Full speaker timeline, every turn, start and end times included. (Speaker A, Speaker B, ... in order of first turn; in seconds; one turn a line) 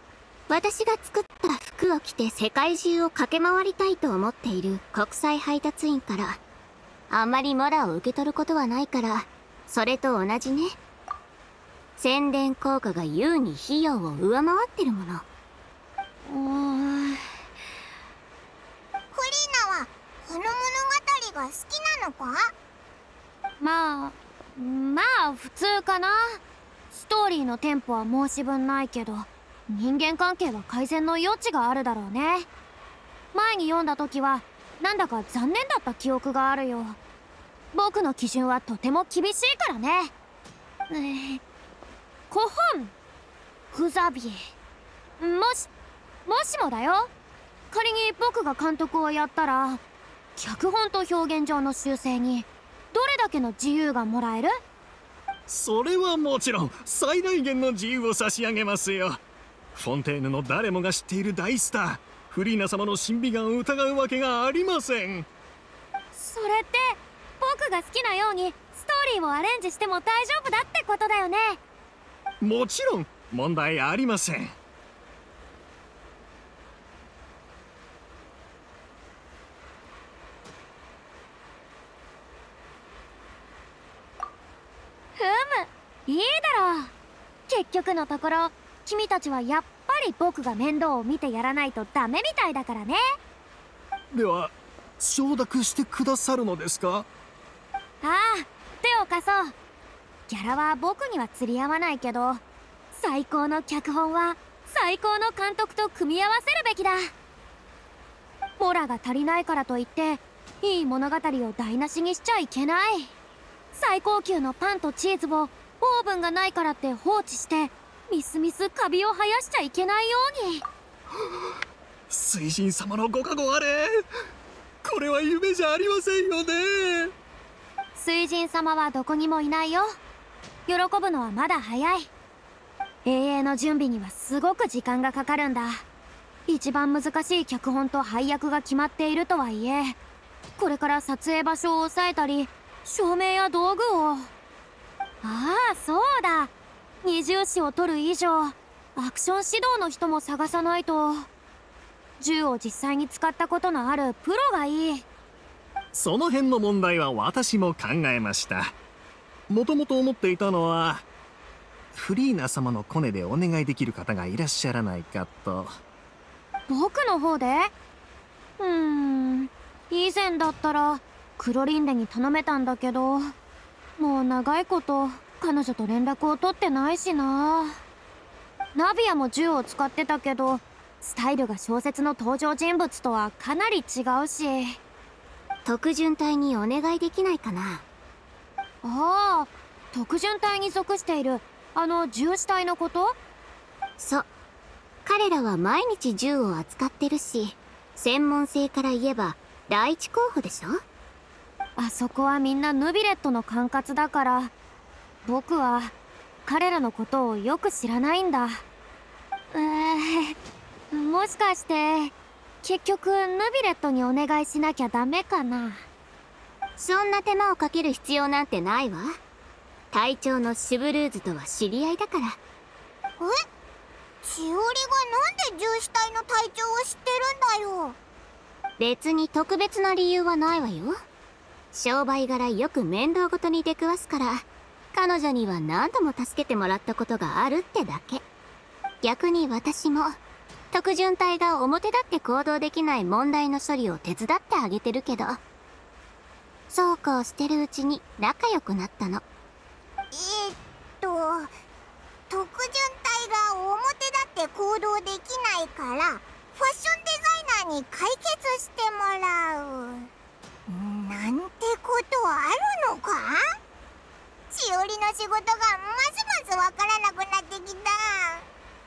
Speaker A: 0.5-6.4
Speaker A: 7.1-10.8
Speaker A: 12.0-15.2
Speaker B: 16.2-17.2
Speaker C: 19.1-22.5
Speaker B: 23.6-26.4
Speaker B: 26.9-32.5
Speaker B: 33.3-37.0
Speaker B: 37.7-40.1
Speaker B: 40.9-41.4
Speaker B: 42.3-42.9
Speaker B: 43.7-44.4
Speaker B: 45.2-45.7
Speaker B: 46.2-47.1
Speaker B: 47.7-49.8
Speaker B: 50.4-54.5
Speaker D: 55.5-59.2
Speaker D: 59.7-65.3
Speaker B: 66.1-71.6
Speaker D: 72.4-74.5
Speaker B: 85.2-86.9
Speaker B: 87.5-93.0
Speaker D: 94.1-97.1
Speaker B: 98.0-99.5
Speaker B: 100.3-107.1
Speaker B: 108.6-113.1
Speaker B: 113.7-120.6
Speaker D: 122.1-123.9
Speaker D: 124.8-127.1
Speaker B: 127.9-129.9
Speaker B: 130.7-132.1
Speaker B: 133.0-135.8
Speaker B: 136.5-140.0
Speaker B: 140.6-144.3
Speaker B: 145.2-146.5
Speaker B: 147.0-151.3
Speaker B: 152.2-155.0
Speaker D: 155.9-158.7
Speaker D: 159.5-161.1
Speaker D: 161.9-165.7
Speaker B: 166.7-167.7
Speaker B: 168.6-173.3
Speaker B: 174.0-177.8
Speaker B: 178.7-184.8
Speaker A: 185.6-187.8
Speaker B: 188.8-193.2
Speaker A: 194.0-194.3
Speaker A: 195.0-200.8
Speaker B: 201.8-204.5
Speaker B: 205.2-205.9
Speaker B: 206.4-208.6
Speaker B: 209.5-210.3
Speaker B: 210.9-215.8
Speaker A: 216.8-219.2
Speaker A: 219.9-222.4
Speaker C: 224.2-228.0
Speaker A: 228.8-231.0
Speaker A: 231.7-238.2
Speaker A: 239.0-240.2
Speaker A: 240.7-245.4
Speaker A: 246.7-249.2
Speaker C: 250.1-251.5
Speaker C: 252.3-260.1
Speaker C: 260.7-263.4
Speaker C: 264.5-268.4